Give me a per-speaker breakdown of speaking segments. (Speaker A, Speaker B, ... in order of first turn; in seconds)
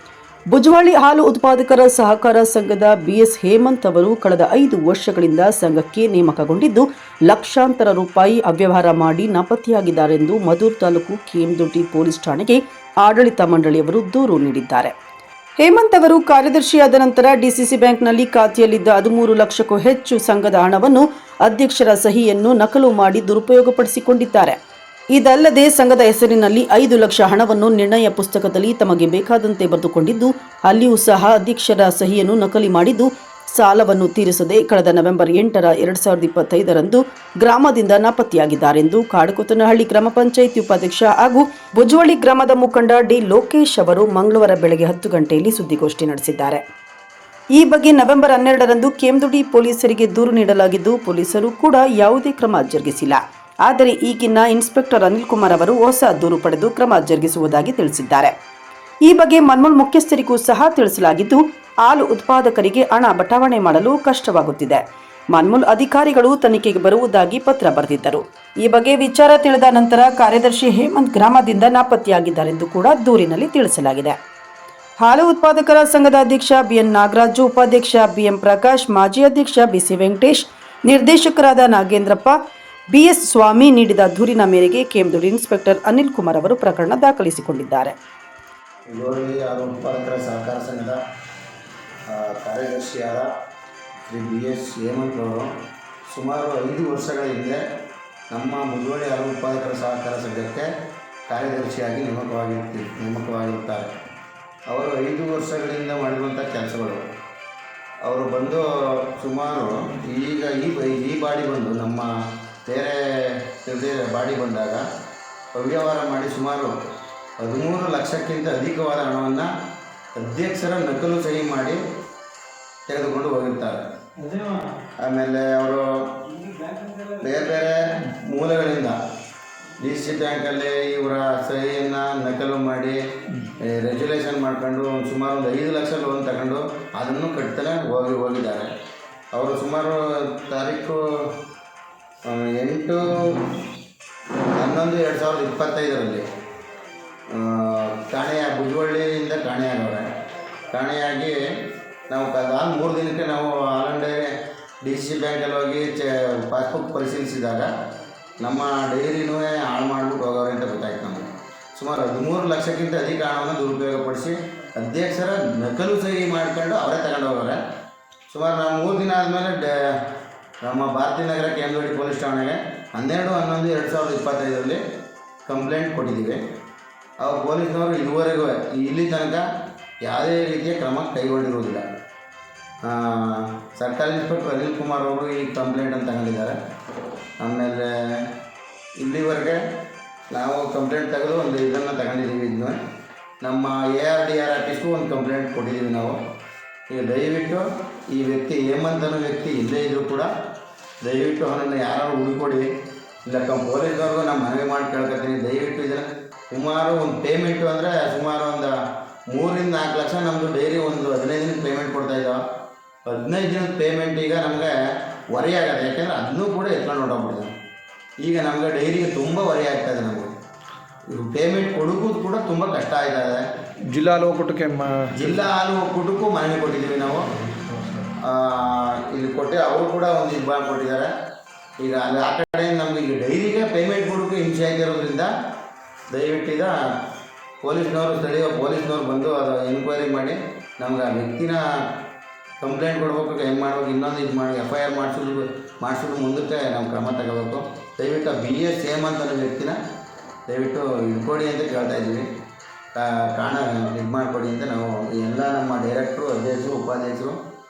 Speaker A: 0.5-14.9, 15.6-24.6, 25.1-46.6, 47.5-58.3, 59.0-74.2, 75.0-82.4, 82.9-87.9
Speaker B: 88.9-91.0, 92.1-93.3, 94.1-95.5, 96.1-97.6, 98.3-100.7, 101.3-103.9, 104.7-107.0, 108.0-112.1, 112.6-114.8, 115.5-116.7, 117.4-119.5, 120.1-121.8, 122.9-123.8, 125.0-126.3, 127.2-129.0, 129.8-133.0, 133.6-138.7, 139.3-141.0, 142.2-143.5, 144.6-146.2, 147.3-150.1, 150.7-151.3, 152.1-154.3, 154.8-157.7, 158.4-167.6, 168.3-170.0, 170.6-174.8, 175.4-176.4, 177.2-179.4, 180.0-181.8, 182.8-186.6, 187.4-188.3, 189.0-189.6, 190.3-192.8, 193.4-196.2, 196.9-200.3, 201.0-202.7, 203.2-208.7, 209.3-212.4, 213.1-214.7, 215.3-217.5, 218.2-220.3, 221.1-223.4, 225.1-227.3, 228.2-231.1, 231.8-235.3, 236.1-236.7, 237.6-241.6, 242.6-249.8, 250.5-252.2, 252.9-257.4
Speaker C: 124.2-124.8, 126.5-127.2, 223.9-225.3, 227.7-228.1